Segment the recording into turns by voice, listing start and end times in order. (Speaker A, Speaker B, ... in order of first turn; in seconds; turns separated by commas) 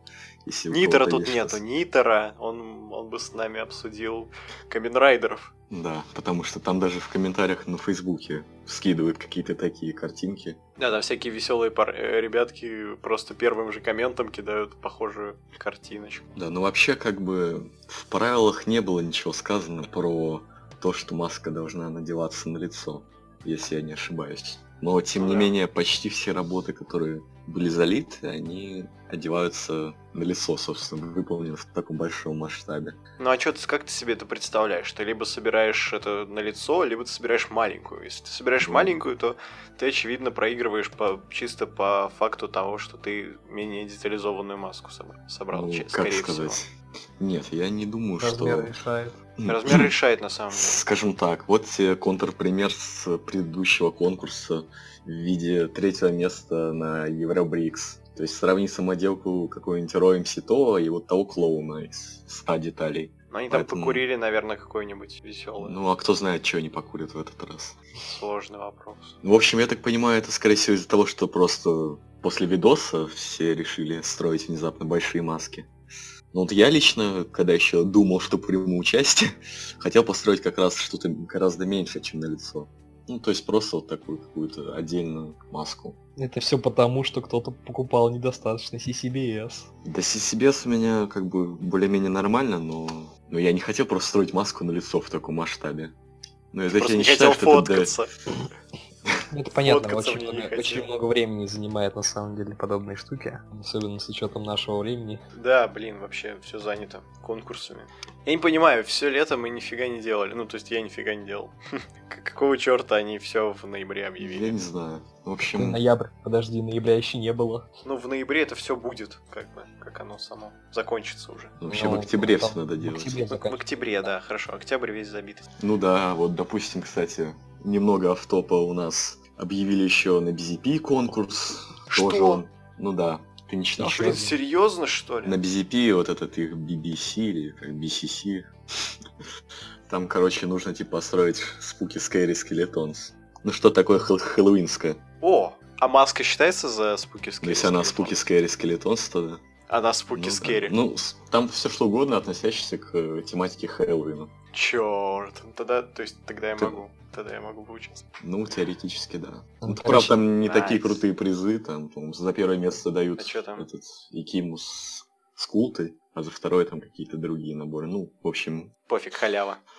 Speaker A: 0.5-1.6, Speaker B: 0.7-5.5, Speaker A: 5.7-10.6, Speaker B: 10.8-16.3, Speaker A: 16.4-33.0, Speaker B: 25.2-25.5, Speaker B: 33.2-46.6, Speaker A: 38.6-39.0, Speaker A: 45.5-48.7, Speaker C: 48.2-49.2, Speaker A: 49.4-49.9, Speaker B: 49.5-50.8, Speaker A: 50.5-64.0, Speaker B: 63.3-65.8, Speaker A: 65.6-67.8, Speaker B: 68.0-69.2, Speaker A: 69.2-75.7, Speaker A: 76.3-86.0, Speaker C: 86.2-89.7, Speaker A: 89.8-95.9, Speaker A: 96.5-97.9, Speaker B: 96.7-98.1, Speaker C: 99.3-105.2, Speaker B: 99.5-100.9, Speaker B: 105.3-114.6, Speaker A: 114.2-115.8, Speaker C: 115.5-117.7, Speaker B: 117.8-121.5, Speaker A: 121.6-123.2, Speaker C: 121.7-123.8, Speaker B: 123.3-125.5, Speaker A: 125.6-134.2, Speaker B: 131.9-132.4, Speaker C: 133.8-134.4, Speaker B: 133.8-135.4, Speaker A: 135.2-138.5, Speaker A: 139.9-145.0, Speaker B: 145.2-148.2, Speaker A: 147.4-149.4, Speaker B: 149.7-150.8, Speaker A: 150.1-154.3, Speaker B: 154.5-158.1, Speaker A: 158.2-168.7, Speaker C: 159.6-160.2, Speaker B: 160.4-161.0, Speaker B: 163.2-163.7, Speaker B: 168.9-169.6